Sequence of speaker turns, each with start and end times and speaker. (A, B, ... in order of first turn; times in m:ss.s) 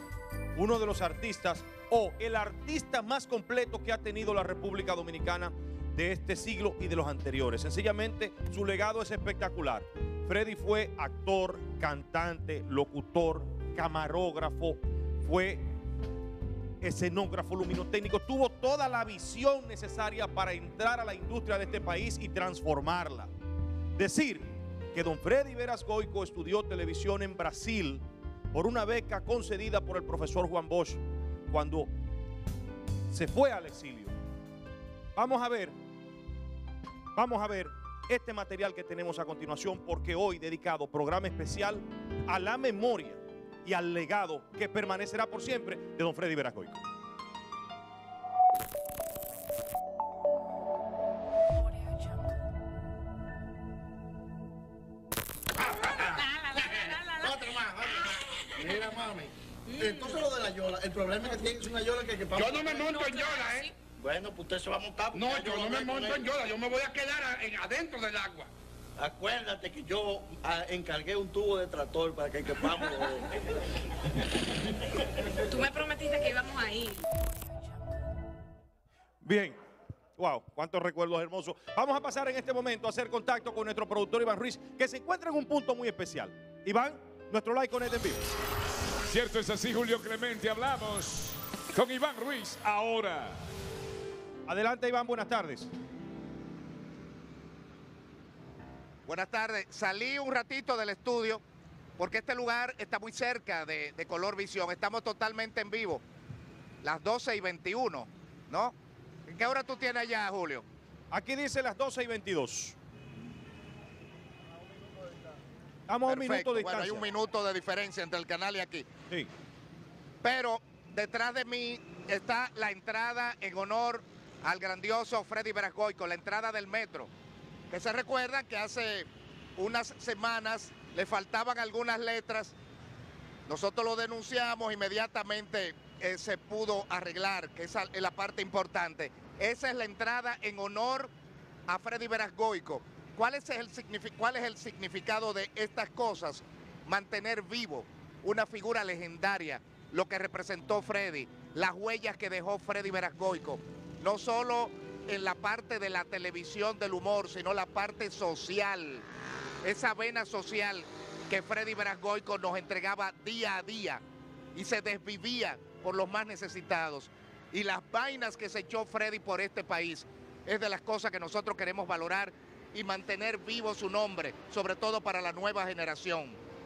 0:00.5-0:15.7 A
0:16.8-0:23.3 A
0:24.0-0:31.9 A
0:33.1-0:34.1 A
0:35.2-0:35.8 A
0:37.1-0:46.8 A
0:56.0-0:58.7 B
0:57.3-0:57.6 C
0:59.7-1:02.9 C
0:59.8-1:00.2 B
1:02.4-1:03.7 D
1:03.0-1:03.7 B
1:04.0-1:06.2 C
1:05.1-1:08.5 D
1:09.0-1:13.3 C
1:15.4-1:17.0 B
1:19.2-1:19.6 A
1:20.2-1:28.2 A
1:29.0-1:33.4 E
1:34.5-1:35.7 A
1:39.0-1:41.4 F
1:42.0-1:46.0 F
1:46.8-1:48.7 F
1:49.3-1:50.6 F
1:51.1-1:52.8 A
1:55.9-1:57.1 A
1:56.1-1:58.9 F
2:00.2-2:07.1 F
2:07.7-2:12.5 F
2:13.5-2:21.1 F
2:21.7-2:39.0 F
2:39.6-2:44.0 F
2:44.5-2:56.4 F